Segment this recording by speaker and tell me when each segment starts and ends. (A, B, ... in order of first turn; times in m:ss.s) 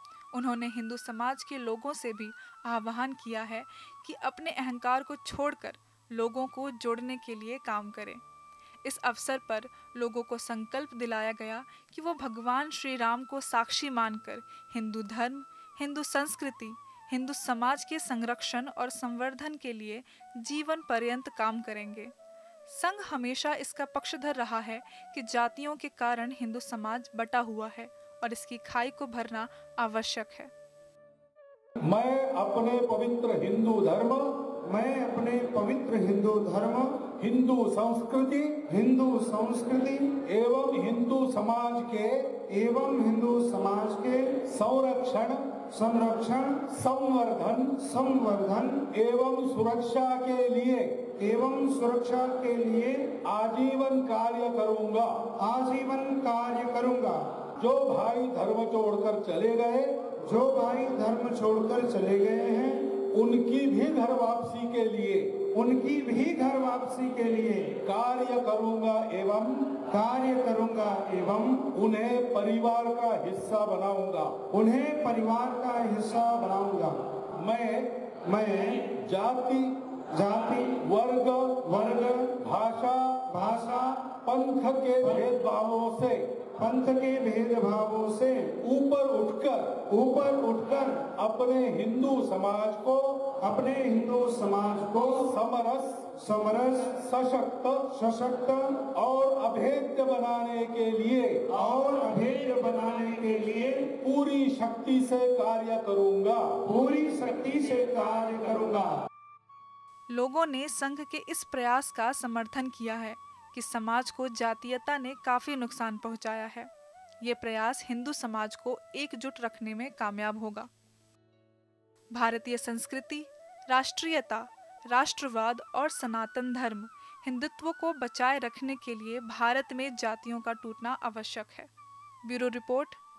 0:00.3-0:08.2 A
0:08.8-0:22.1 A
0:22.7-0:30.5 A
0:31.8-0:34.5 B
0:34.6-0:37.1 C
0:37.2-0:38.6 B
0:38.7-0:40.2 C
0:40.2-0:42.4 B
0:42.5-0:44.4 C
0:44.4-0:45.6 B
0:45.7-0:46.7 C
0:46.7-0:47.8 B
0:47.8-0:48.9 C
0:48.9-0:51.1 B
0:51.2-0:53.2 C
0:53.2-0:55.3 B
0:55.4-0:57.3 C
0:57.6-1:00.0 B
1:00.2-1:02.9 C
1:03.1-1:05.4 B
1:05.5-1:07.8 C
1:07.8-1:09.8 B
1:09.9-1:11.7 C
1:11.7-1:14.4 B
1:14.5-1:17.1 C
1:17.4-1:18.1 B
1:18.2-1:18.9 C
1:18.9-1:19.9 B
1:20.1-1:20.8 C
1:20.8-1:21.7 B
1:21.6-1:22.4 C
1:22.4-1:23.2 B
1:23.3-1:24.1 C
1:24.2-1:26.4 B
1:26.6-1:28.6 C
1:28.6-1:29.8 B
1:29.9-1:31.1 C
1:31.2-1:33.3 B
1:33.4-1:35.3 C
1:35.1-1:36.1 B
1:36.2-1:37.0 C
1:37.0-1:37.9 B
1:37.9-1:38.9 C
1:38.9-1:41.5 B
1:41.5-1:43.9 C
1:44.0-1:46.6 B
1:46.6-1:49.0 C
1:50.1-1:56.7 A
1:57.2-2:00.7 A
2:02.1-2:11.7 A
2:12.2-2:13.0 A